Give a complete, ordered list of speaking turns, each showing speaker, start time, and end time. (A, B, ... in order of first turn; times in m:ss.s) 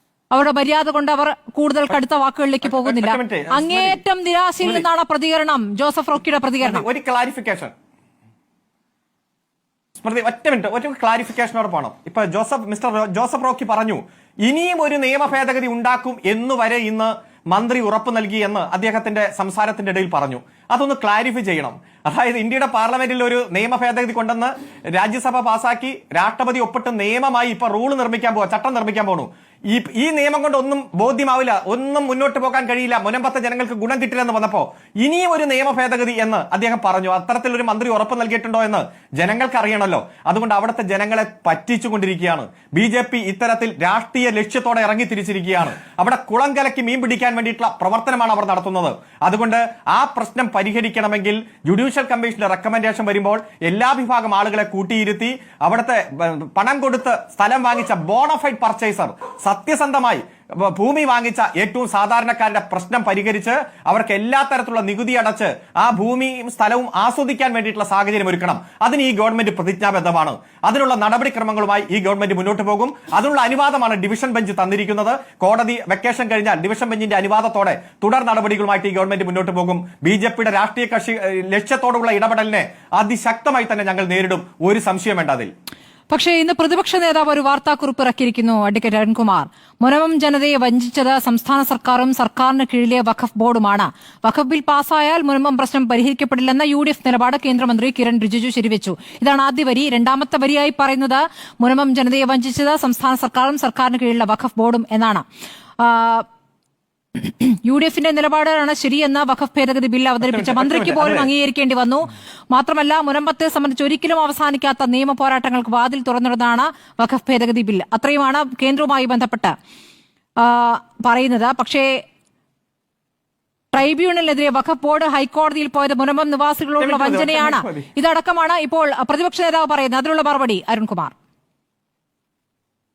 0:00.3-0:06.8 A
0:02.6-0:04.0 B
0:06.6-0:07.7 B
0:10.0-1:25.5 B
1:26.1-1:45.2 A
1:45.8-1:46.2 A
1:47.1-1:59.5 A
1:50.2-1:51.3 B
2:00.4-2:02.0 A
2:03.7-2:11.1 A
2:06.8-2:07.9 B